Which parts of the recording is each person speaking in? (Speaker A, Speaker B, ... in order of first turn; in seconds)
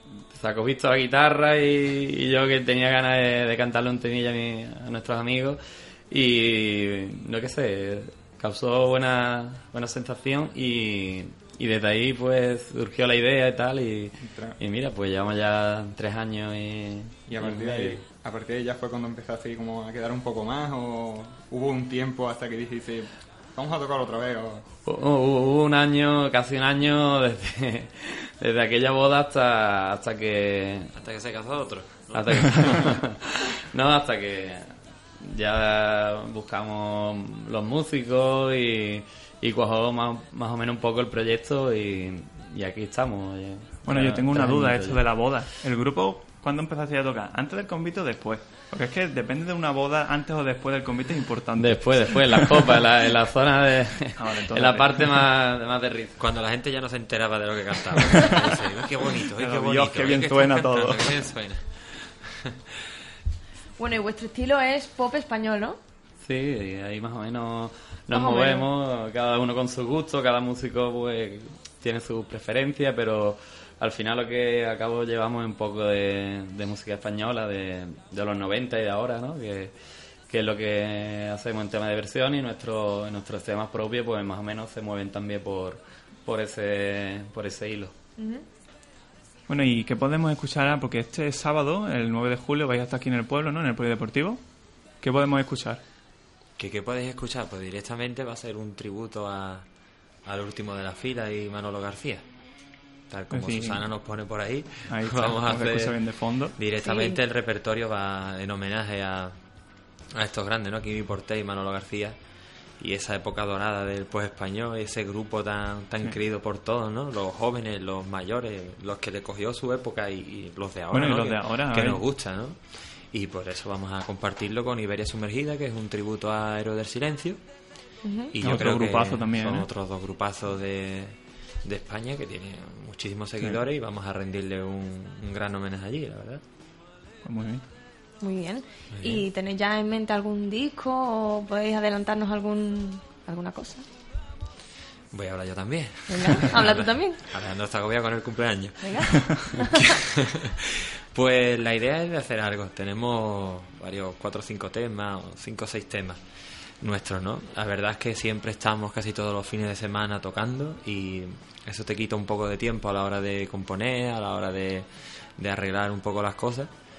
Speaker A: 0.3-18.0, 24.9-30.9, 32.1-45.1, 51.6-56.1, 66.2-79.7, 80.3-87.9
Speaker B: 14.2-14.6, 17.3-24.7
Speaker C: 31.0-32.9, 56.2-62.5, 96.6-99.7, 100.2-102.2, 103.1-106.0, 106.6-109.3, 110.1-112.2, 112.8-127.4, 128.3-136.4, 138.9-139.3, 145.1-156.2, 156.8-166.7
Speaker D: 43.9-52.8, 54.1-55.3, 59.4-61.2, 89.5-94.4, 95.0-95.8, 103.3-103.8, 104.9-106.6, 120.9-122.0, 128.4-129.7, 137.2-137.6
Speaker E: 63.8-65.8, 68.1-68.7, 88.2-88.5, 106.8-107.2, 128.0-128.3, 138.2-143.8, 146.1-147.2, 148.8-150.0